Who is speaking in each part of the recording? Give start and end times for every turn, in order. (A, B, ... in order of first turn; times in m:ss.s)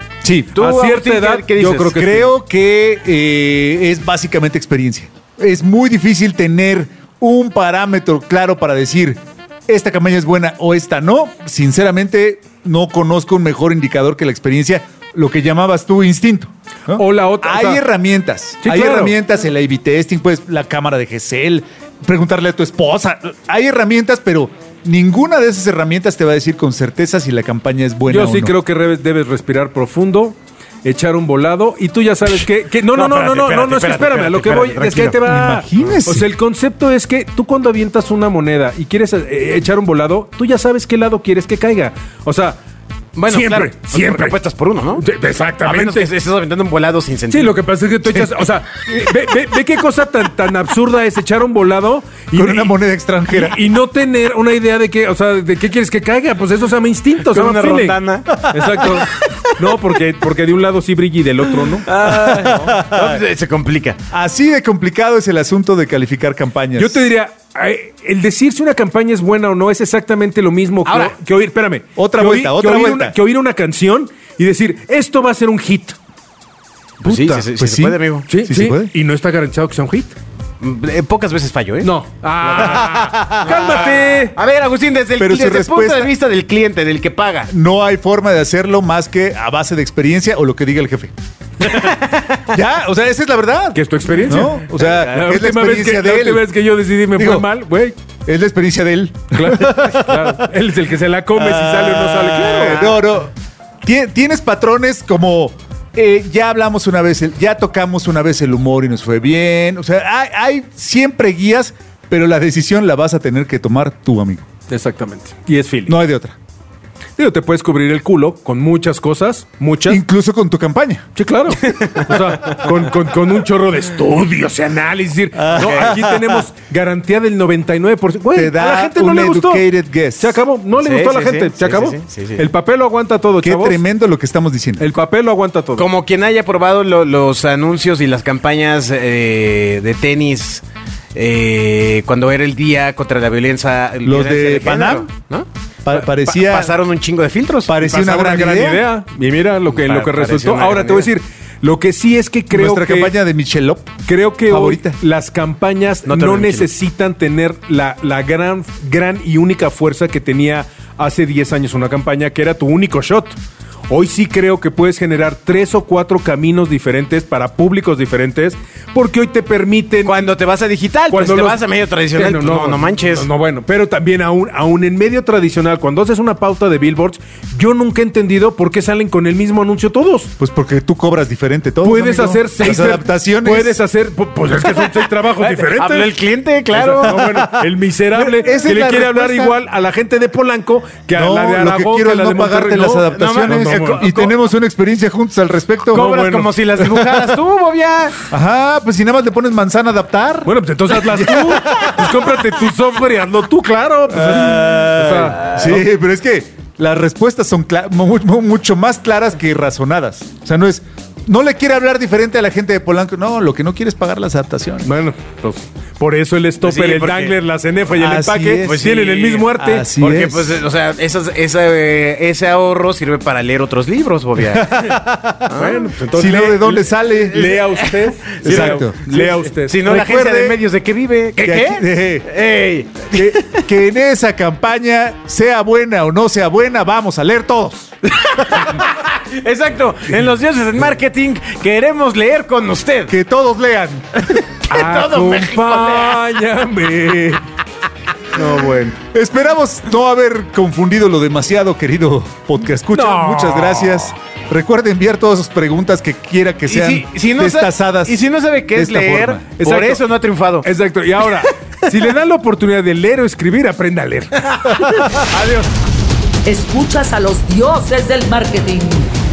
0:00.2-0:00.6 A
0:00.5-0:01.9 B
0:00.6-0:02.3 C
0:01.9-0:28.5 A
0:16.9-0:17.8 C
0:18.6-0:19.1 C
0:28.1-0:42.6 C
0:32.9-0:35.0 B
0:34.8-0:36.3 A
0:43.2-0:45.0 B
0:43.3-0:44.4 C
0:45.0-0:46.1 C
0:45.6-0:47.6 B
0:47.3-0:52.7 C
0:52.3-0:53.6 A
0:53.3-1:02.2 C
0:57.3-0:58.4 B
0:58.4-0:59.3 A
1:01.8-1:04.0 B
1:02.0-1:03.2 A
1:04.1-1:07.0 A
1:06.7-1:16.0 C
1:10.8-1:11.1 B
1:12.0-1:13.1 A
1:17.0-1:18.3 B
1:17.0-1:17.5 C
1:17.6-1:18.9 A
1:18.3-1:20.2 C
1:20.6-1:21.9 B
1:21.8-1:24.4 C
1:22.6-1:27.5 B
1:22.6-1:23.8 A
1:25.2-1:26.1 A
1:27.5-1:31.1 A
1:31.6-1:32.4 B
1:32.5-1:36.5 A
1:33.7-1:38.0 C
1:37.1-1:37.5 A
1:38.2-1:40.5 A
1:39.3-1:43.0 C
1:41.3-1:43.3 A
1:43.8-1:54.4 A
1:54.7-1:56.0 C
1:55.9-1:56.4 A
1:57.2-2:00.0 C
1:59.8-2:01.0 A
2:01.2-2:09.7 C
2:01.6-2:02.6 B
2:05.4-2:06.4 A
2:05.5-2:05.9 B
2:08.3-2:10.4 A
2:10.2-2:13.8 C
2:10.8-2:12.5 B
2:13.4-2:14.9 A
2:14.8-2:15.9 C
2:15.8-2:20.6 B
2:21.1-2:27.7 B
2:24.0-2:25.1 A
2:25.8-2:26.7 A
2:27.7-2:28.8 A
2:27.8-2:33.1 C
2:29.7-2:31.1 B
2:32.5-2:33.9 A
2:34.0-2:50.3 C
2:34.5-2:35.0 A
2:36.0-2:36.7 B
2:50.0-2:53.3 B
2:51.1-3:00.3 C
3:00.4-3:03.8 A
3:01.8-3:06.1 C
3:05.4-3:07.4 B
3:06.7-3:14.2 C
3:07.0-3:09.6 A
3:11.1-3:16.1 A
3:13.1-3:14.3 B
3:15.9-3:16.6 C
3:15.9-3:18.2 B
3:16.8-3:17.3 A
3:18.3-3:22.2 A
3:20.4-3:25.5 C
3:24.1-3:34.9 A
3:34.8-3:39.9 C
3:36.6-3:37.4 B
3:37.9-3:38.9 A
3:38.6-3:44.7 B
3:39.5-3:40.6 A
3:44.4-3:45.5 A
3:45.5-3:45.9 B
3:45.5-3:49.8 C
3:46.1-3:47.5 A
3:47.4-3:48.8 B
3:48.4-3:50.6 A
3:49.7-3:53.6 B
3:51.4-3:52.3 A
3:53.1-3:57.9 A
3:58.2-4:03.1 B
4:03.1-4:04.2 A
4:04.5-4:06.2 B
4:04.7-4:07.4 C
4:08.3-4:09.0 C
4:09.0-4:18.2 A
4:13.1-4:14.0 B
4:16.7-4:20.7 B
4:18.7-4:19.5 A
4:19.6-4:20.0 C
4:20.6-4:25.7 C
4:26.4-4:29.1 D